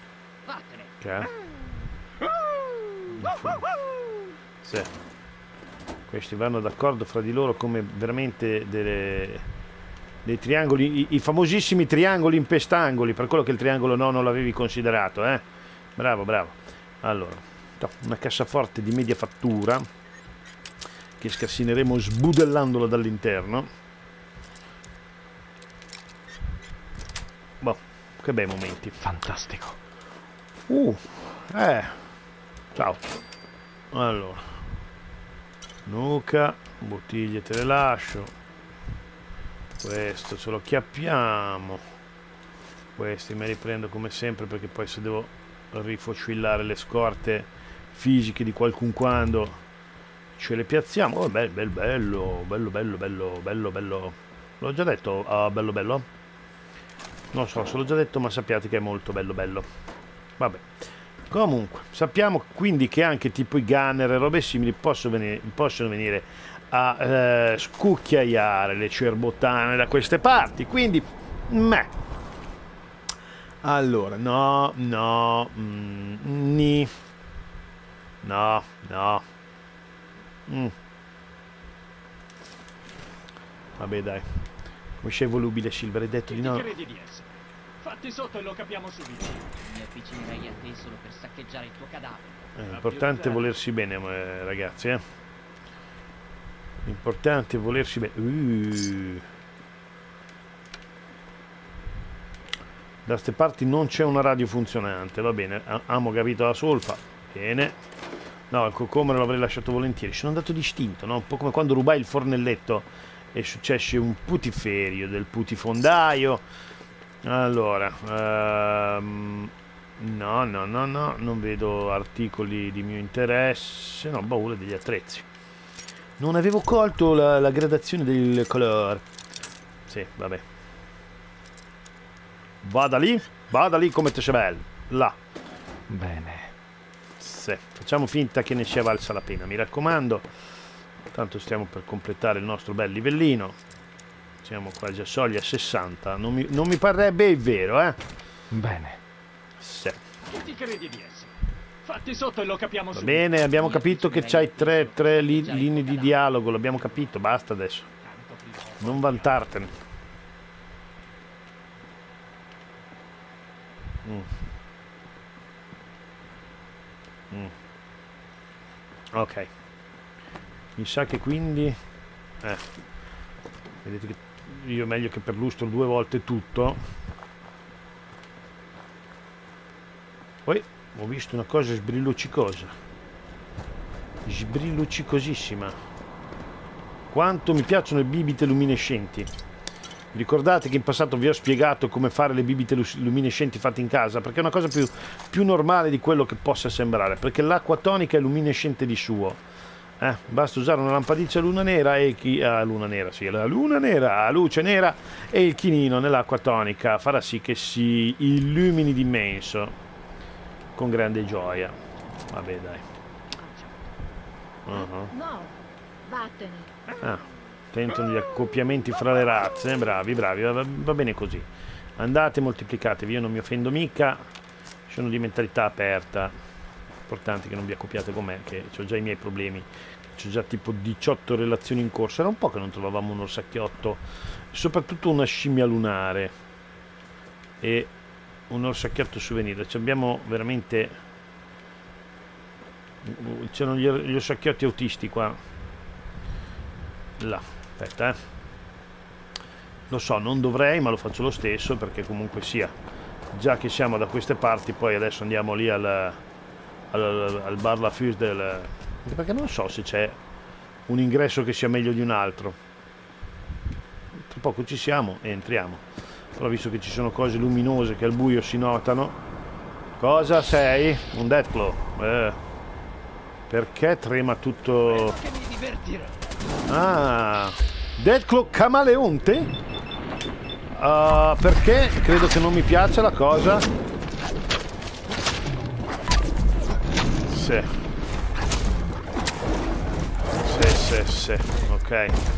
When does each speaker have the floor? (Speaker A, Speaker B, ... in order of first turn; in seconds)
Speaker A: 0.5-0.9, 89.6-92.4, 153.6-156.1
Speaker B: 1.0-1.3, 3.1-3.7, 4.6-4.9, 6.1-9.4, 10.2-15.4, 16.0-19.8, 21.2-23.7, 27.6-29.0, 30.7-32.0, 32.8-33.0, 33.9-34.5, 35.9-38.3, 39.8-41.8, 43.0-49.6, 50.4-56.1, 57.3-59.7, 60.4-60.7, 61.3-71.9, 73.6-76.9, 78.2-79.2, 80.5-80.7, 83.8-84.2, 85.0-86.7, 92.6-95.0, 96.8-99.2, 103.0-107.8, 108.5-116.4, 117.2-125.3, 126.2-129.0, 129.9-130.4, 132.6-135.2, 137.2-140.3, 141.1-143.6, 144.4-148.0, 149.6-150.0, 152.9-157.9, 158.8-159.7, 169.1-169.5, 170.8-171.8, 173.8-176.8, 180.5-182.7, 184.2-185.8, 187.1-189.3, 190.1-199.4, 200.0-209.8, 210.8-211.8, 212.3-212.8, 214.7-215.1, 217.0-221.5, 222.0-224.2, 224.9-226.3, 227.1-236.3, 237.6-237.9, 238.5-241.0, 243.0-245.4, 247.2-248.2, 249.9-252.7, 253.3-256.2, 256.9-260.2, 260.9-262.6, 264.2-265.8, 266.4-269.2, 270.0-272.4, 273.5-275.2, 276.7-279.5, 280.8-283.7, 287.3-287.7, 290.4-292.2
Speaker C: 29.0-29.8, 135.9-136.5, 148.5-149.0
Speaker D: 86.3-89.5, 92.7-93.5, 150.3-154.5, 157.9-159.4, 274.8-276.2
Speaker E: 213.4-213.8, 214.7-216.9